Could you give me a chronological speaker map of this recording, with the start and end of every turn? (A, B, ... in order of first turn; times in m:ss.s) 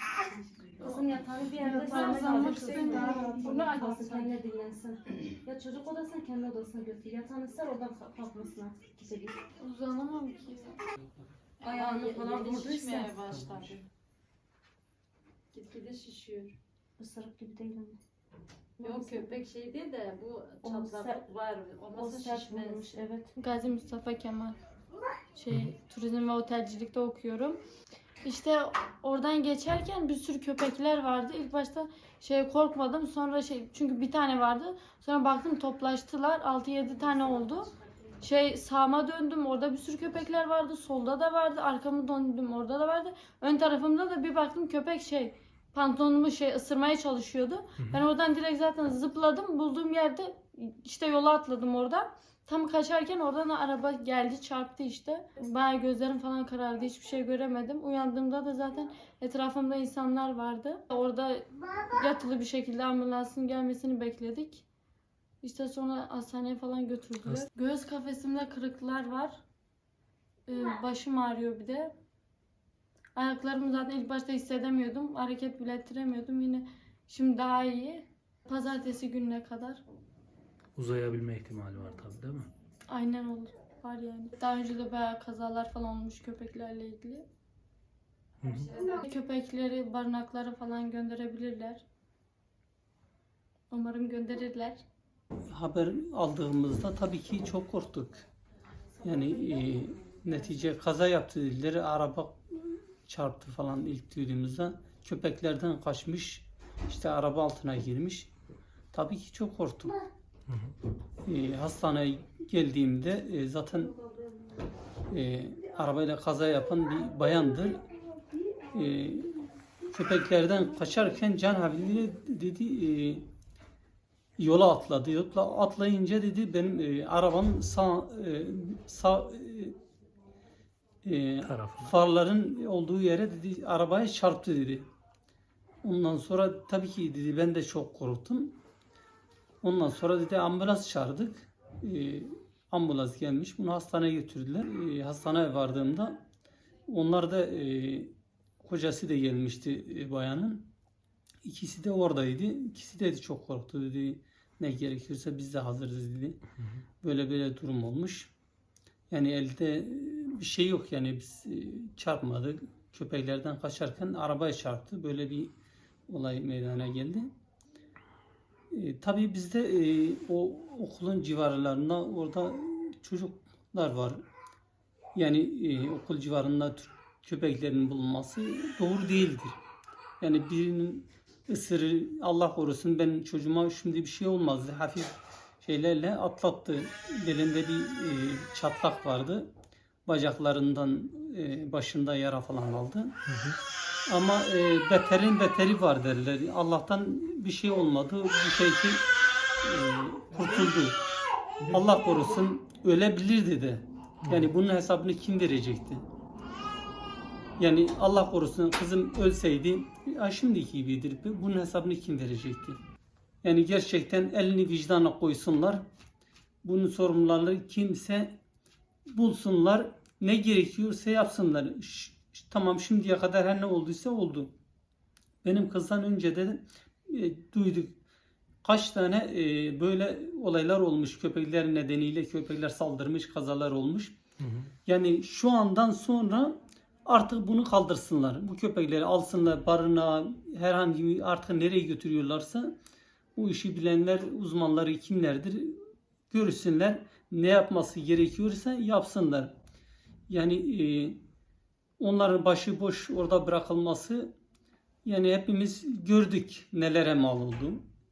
0:00.8-0:09.4 A
0:01.6-0:04.4 B
0:01.7-0:03.7 C
0:09.6-0:10.8 C
0:11.6-0:13.9 B
0:11.6-0:13.2 A
0:15.5-0:16.6 B
0:17.0-0:18.0 A
0:18.8-0:19.4 A
0:18.8-0:22.9 B
0:20.6-0:21.3 A
0:21.9-0:23.3 A
0:23.4-0:24.6 C
0:25.3-0:27.6 C
0:28.2-1:04.6 C
1:05.4-1:09.4 C
1:10.5-1:12.0 C
1:13.2-1:19.8 C
1:20.8-1:22.5 D
1:22.9-1:27.2 C
1:28.4-1:28.7 D
1:28.8-1:31.8 C
1:33.7-1:34.8 C
1:35.5-1:38.2 E
1:39.0-1:48.3 E
1:48.9-1:50.0 E
1:51.2-1:54.0 E
1:55.1-1:57.8 E
1:58.7-2:03.3 E
2:04.4-2:09.8 E
2:11.0-2:14.9 E
2:11.4-2:11.9 D
2:15.8-2:18.6 E
2:19.6-2:26.2 E
2:26.9-2:28.1 E
2:28.6-2:30.7 E
2:31.4-2:36.4 E
2:37.0-2:38.3 E
2:39.1-2:45.5 E
2:46.1-2:47.3 E
2:48.7-2:54.2 E
2:55.2-2:59.6 E
3:00.2-3:09.5 E
3:10.1-3:13.2 E
3:13.3-3:13.6 D
3:14.1-3:19.0 E
3:19.6-3:21.0 E
3:21.7-3:26.0 E
3:27.6-3:32.8 E
3:33.4-3:35.8 E
3:36.6-3:38.4 E
3:39.1-3:44.5 E
3:45.4-3:48.0 E
3:48.6-3:54.2 E
3:54.4-3:54.7 D
3:54.9-4:02.8 E
4:03.4-4:09.6 E
4:10.3-4:11.2 E
4:12.0-4:14.3 E
4:15.0-4:17.8 E